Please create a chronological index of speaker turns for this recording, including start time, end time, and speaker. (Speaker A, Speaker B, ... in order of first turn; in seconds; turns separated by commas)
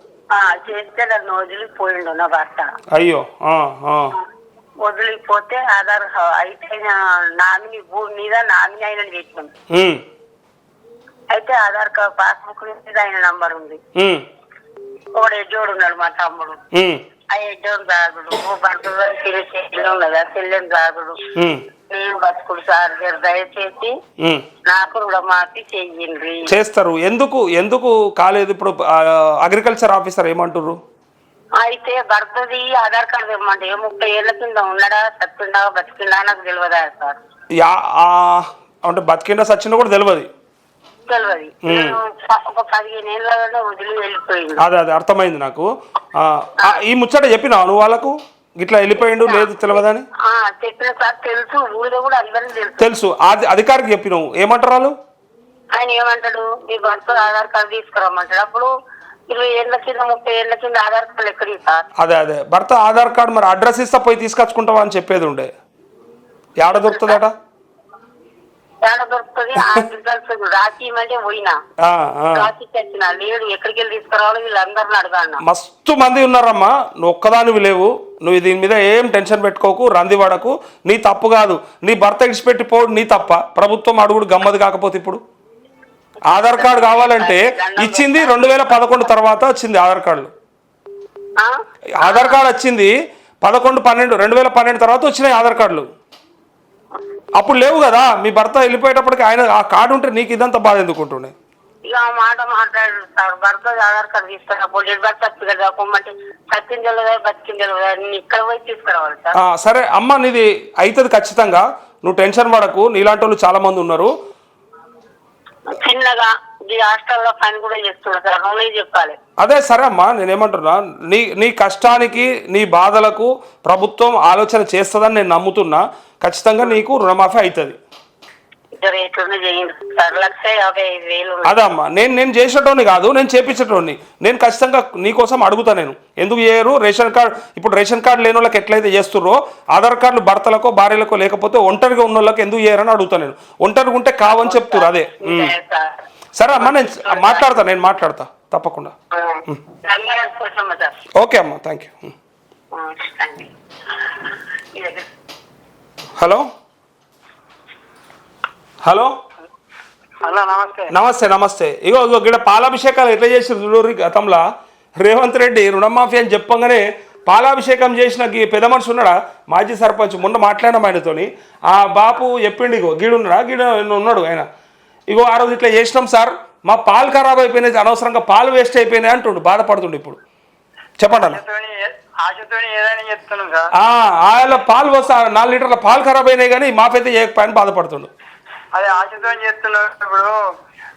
Speaker A: 0.3-2.7, Speaker B: 2.9-4.1, Speaker A: 4.8-9.5, Speaker B: 9.7-10.0, Speaker A: 11.3-13.8, Speaker B: 13.9-14.2, Speaker A: 15.2-16.6, Speaker B: 16.7-17.0, Speaker A: 17.3-21.2, Speaker B: 21.4-21.6, Speaker A: 21.9-23.9, Speaker A: 24.7-26.4, Speaker B: 26.5-30.8, Speaker A: 31.6-37.2, Speaker B: 37.6-40.3, Speaker A: 41.1-44.6, Speaker B: 41.7-42.0, Speaker B: 44.6-50.0, Speaker A: 49.2-49.7, Speaker A: 50.3-52.9, Speaker B: 52.8-54.9, Speaker A: 55.7-58.7, Speaker A: 59.3-61.9, Speaker B: 62.0-65.5, Speaker B: 66.6-67.3, Speaker A: 66.7-67.2, Speaker A: 68.8-71.6, Speaker B: 71.8-72.5, Speaker A: 72.3-75.4, Speaker B: 75.4-85.2, Speaker B: 86.3-90.3, Speaker A: 86.3-89.1, Speaker A: 91.4-92.4, Speaker B: 92.0-95.9, Speaker B: 97.4-101.3, Speaker A: 101.9-109.3, Speaker B: 109.4-114.1, Speaker A: 115.7-119.2, Speaker B: 119.4-127.8, Speaker A: 128.8-131.7, Speaker B: 131.4-145.5, Speaker A: 144.3-146.0, Speaker B: 146.3-148.9, Speaker A: 146.5-147.5, Speaker A: 149.1-150.9, Speaker B: 151.2-152.1, Speaker A: 152.7-153.5, Speaker A: 154.7-155.1, Speaker B: 156.2-156.4, Speaker B: 158.8-159.1, Speaker C: 160.3-160.7, Speaker B: 160.9-164.4, Speaker B: 165.0-174.5, Speaker B: 175.1-180.2, Speaker B: 181.0-181.4, Speaker C: 181.2-181.7, Speaker C: 182.3-183.6, Speaker B: 183.8-188.1, Speaker C: 188.8-190.3